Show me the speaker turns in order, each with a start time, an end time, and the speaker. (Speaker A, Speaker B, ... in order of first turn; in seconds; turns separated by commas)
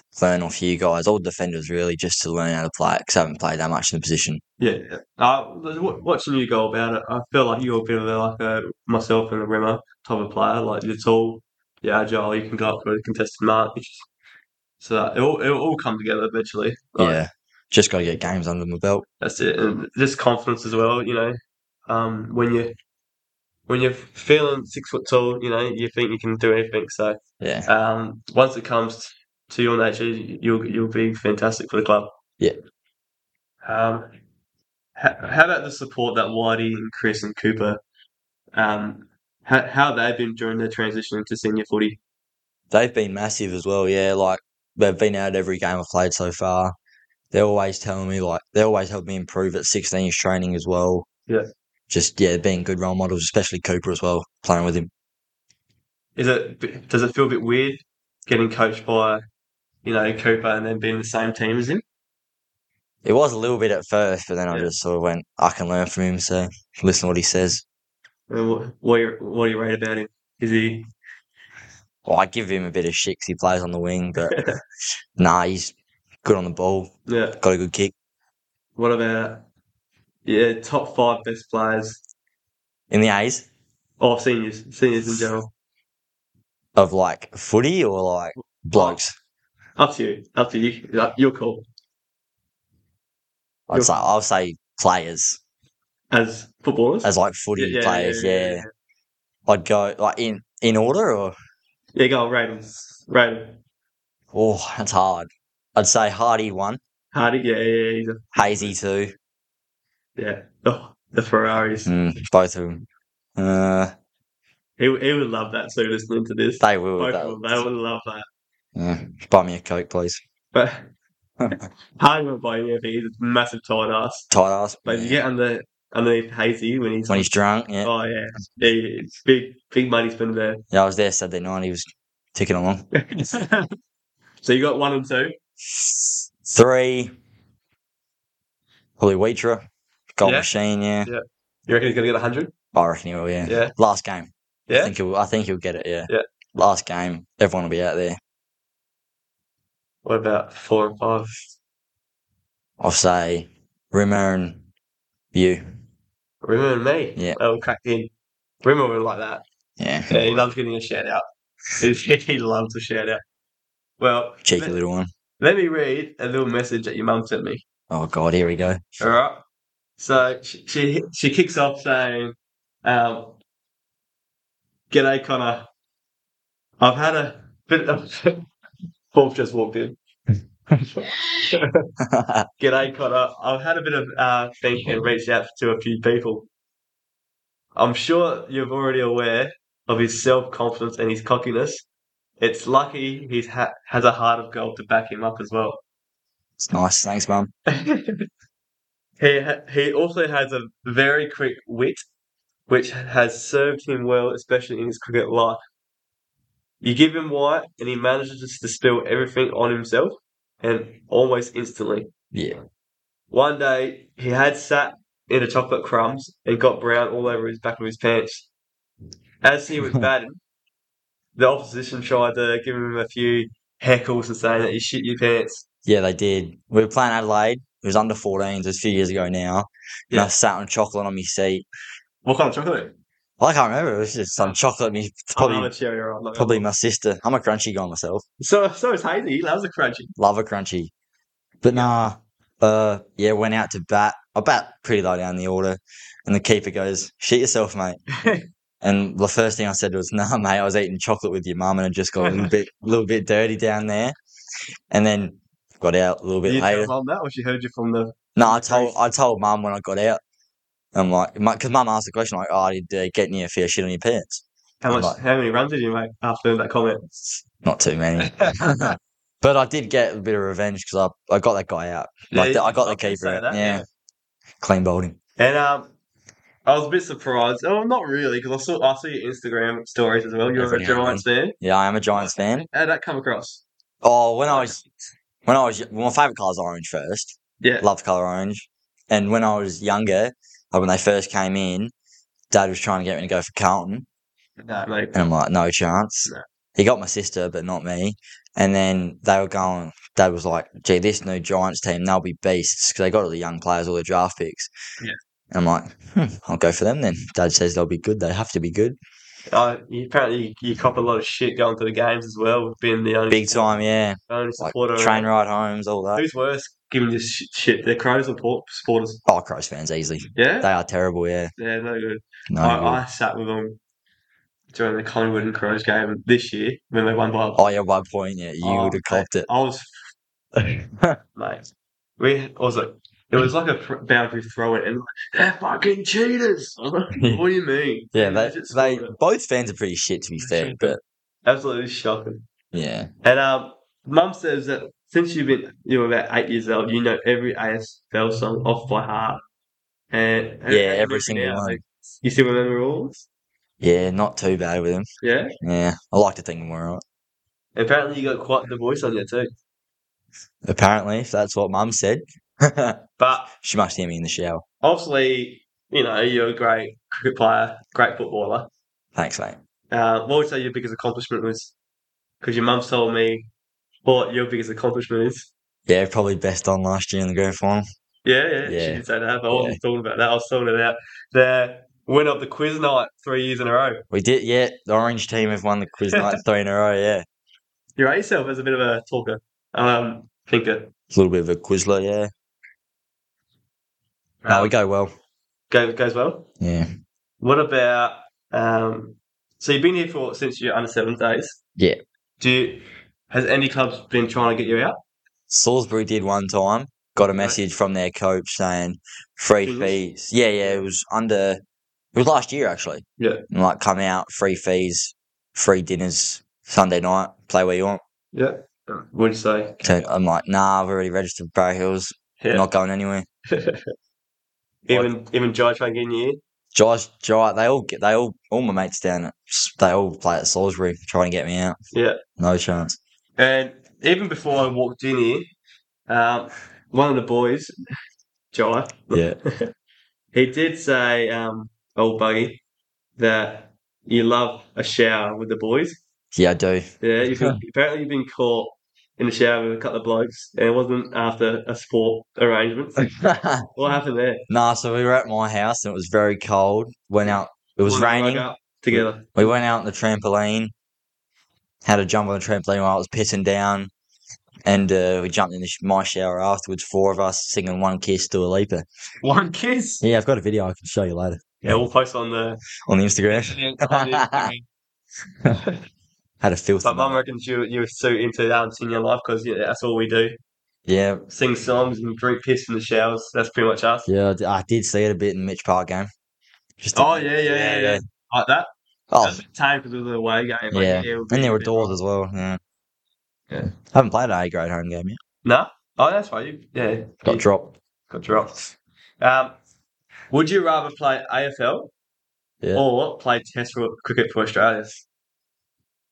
Speaker A: 0.1-4.4, Speaker B: 4.6-14.1, Speaker B: 14.8-17.2, Speaker A: 17.0-19.1, Speaker B: 19.2-22.7, Speaker B: 23.7-32.1, Speaker A: 27.4-27.7, Speaker B: 33.6-34.0, Speaker B: 35.0-37.8, Speaker B: 38.5-42.0, Speaker A: 42.7-46.7, Speaker A: 47.3-51.1, Speaker A: 51.9-54.9, Speaker B: 56.1-59.2, Speaker B: 59.8-61.8, Speaker A: 63.0-67.6, Speaker B: 68.3-70.9, Speaker A: 72.0-74.4, Speaker B: 74.3-74.5, Speaker A: 75.2-77.9, Speaker B: 77.1-77.4, Speaker B: 78.8-79.4, Speaker B: 80.2-82.0, Speaker A: 82.9-83.5, Speaker B: 84.0-85.5, Speaker A: 86.8-89.1, Speaker B: 88.4-89.0, Speaker B: 89.8-91.7, Speaker A: 93.7-95.4, Speaker B: 93.7-94.0, Speaker B: 96.1-98.7, Speaker A: 97.0-98.6, Speaker A: 99.5-101.3, Speaker B: 101.9-103.5, Speaker A: 104.3-106.8, Speaker B: 107.1-108.7, Speaker A: 108.3-109.1, Speaker B: 110.2-111.9, Speaker A: 111.8-112.8, Speaker A: 113.3-113.9, Speaker B: 114.8-118.2, Speaker A: 116.6-117.6, Speaker A: 118.7-120.2, Speaker B: 120.5-120.8, Speaker B: 122.0-124.3, Speaker A: 124.3-125.2, Speaker B: 124.8-127.3, Speaker A: 127.1-127.9, Speaker B: 127.8-130.6, Speaker A: 130.7-132.9, Speaker B: 132.9-133.8, Speaker B: 134.4-135.3, Speaker A: 135.7-137.1, Speaker A: 139.0-141.1, Speaker B: 140.2-140.5, Speaker B: 141.1-142.5, Speaker A: 142.7-148.2, Speaker B: 143.4-143.7, Speaker B: 144.7-144.9, Speaker B: 150.0-151.4, Speaker A: 152.8-154.6, Speaker A: 155.3-155.6, Speaker B: 156.4-158.1, Speaker B: 158.6-159.4, Speaker A: 159.8-160.4, Speaker B: 160.1-161.2, Speaker B: 161.8-163.2, Speaker B: 164.0-164.8, Speaker A: 164.4-165.1, Speaker B: 165.4-167.6, Speaker A: 167.9-169.0, Speaker B: 169.0-169.4, Speaker B: 170.0-173.4, Speaker B: 174.9-175.7, Speaker B: 176.8-178.4, Speaker B: 179.1-180.0, Speaker B: 180.9-181.9, Speaker A: 182.0-182.5, Speaker B: 182.6-186.5, Speaker B: 187.7-191.8, Speaker B: 192.4-195.8, Speaker A: 196.6-197.5, Speaker B: 197.7-198.3, Speaker B: 199.2-202.0, Speaker B: 202.7-205.6, Speaker B: 206.8-212.1, Speaker A: 212.3-212.6, Speaker B: 213.3-218.5, Speaker B: 219.4-220.4, Speaker B: 221.3-225.6, Speaker A: 225.8-231.7, Speaker B: 232.2-232.9, Speaker A: 233.4-235.7, Speaker B: 235.3-236.7, Speaker A: 236.3-238.2, Speaker B: 238.4-240.1, Speaker A: 240.2-240.9, Speaker A: 241.6-248.0, Speaker B: 241.7-242.0, Speaker B: 248.2-248.4, Speaker A: 248.8-254.2, Speaker B: 252.2-252.5, Speaker A: 254.9-256.9, Speaker B: 256.4-259.0, Speaker A: 258.4-260.2, Speaker A: 260.9-265.2, Speaker B: 264.8-267.1, Speaker A: 267.6-273.8, Speaker B: 268.2-268.9, Speaker B: 272.3-273.9, Speaker A: 274.6-275.2, Speaker B: 275.4-275.9, Speaker B: 276.6-281.6, Speaker A: 280.5-282.7, Speaker B: 282.1-283.6, Speaker A: 284.0-284.8, Speaker B: 284.5-284.9, Speaker A: 285.4-291.9, Speaker B: 287.6-287.9, Speaker A: 292.5-294.1, Speaker B: 294.6-295.3, Speaker A: 295.1-304.7, Speaker A: 305.5-309.0, Speaker B: 309.5-315.3, Speaker A: 313.3-316.2, Speaker B: 316.1-319.2, Speaker A: 319.2-321.5, Speaker B: 320.3-320.7, Speaker B: 321.6-323.8, Speaker A: 322.5-323.0, Speaker B: 324.7-327.7, Speaker A: 327.6-329.5, Speaker B: 328.6-329.9, Speaker A: 330.6-331.2, Speaker B: 331.3-331.6, Speaker B: 332.2-339.1, Speaker A: 337.1-337.4, Speaker A: 338.1-341.0, Speaker B: 340.4-342.4, Speaker A: 342.7-343.1, Speaker B: 343.2-349.4, Speaker B: 350.1-353.2, Speaker A: 350.7-351.8, Speaker A: 353.8-355.1, Speaker B: 355.2-355.5, Speaker A: 355.6-357.0, Speaker B: 357.7-359.5, Speaker A: 360.6-364.6, Speaker B: 363.2-363.5, Speaker B: 364.8-368.7, Speaker A: 369.1-369.6, Speaker B: 369.9-371.7, Speaker B: 372.4-373.5, Speaker B: 374.0-375.5, Speaker A: 375.9-377.8, Speaker B: 378.2-384.0, Speaker A: 378.6-379.8, Speaker A: 384.1-387.2, Speaker B: 388.0-390.9, Speaker A: 391.1-392.3, Speaker B: 394.4-394.7, Speaker A: 394.5-395.1, Speaker B: 395.7-396.4, Speaker A: 396.6-396.9, Speaker B: 397.4-401.6, Speaker B: 402.4-405.0, Speaker A: 405.5-411.6, Speaker B: 407.2-407.6, Speaker B: 409.6-410.0, Speaker A: 412.1-418.0, Speaker B: 413.2-413.4, Speaker B: 418.3-419.9, Speaker A: 419.8-423.2, Speaker B: 422.4-422.6, Speaker B: 423.5-423.9, Speaker B: 424.9-426.4, Speaker A: 426.7-431.8, Speaker B: 431.9-432.2, Speaker A: 432.4-433.0, Speaker B: 433.4-435.5, Speaker B: 436.1-437.7, Speaker B: 438.5-439.7, Speaker A: 439.1-439.4, Speaker B: 440.3-442.6, Speaker B: 443.2-446.0, Speaker A: 446.3-447.6, Speaker B: 447.0-453.1, Speaker A: 453.0-453.7, Speaker B: 453.7-454.4, Speaker A: 454.5-460.7, Speaker B: 457.2-459.5, Speaker A: 461.8-463.9, Speaker A: 464.6-468.8, Speaker B: 469.2-470.0, Speaker A: 470.0-471.8, Speaker B: 471.6-472.6, Speaker A: 472.9-474.5, Speaker B: 473.3-474.7, Speaker B: 475.5-475.8, Speaker A: 476.4-477.2, Speaker B: 476.8-480.4, Speaker A: 480.9-481.2, Speaker B: 481.3-484.1, Speaker A: 484.1-486.1, Speaker A: 486.8-488.0, Speaker B: 486.9-488.7, Speaker A: 489.1-489.4, Speaker B: 489.2-491.9, Speaker A: 490.7-492.6, Speaker A: 493.7-495.2, Speaker B: 495.4-497.4, Speaker A: 497.2-497.7, Speaker B: 498.1-499.5, Speaker B: 500.3-501.9, Speaker B: 502.7-505.0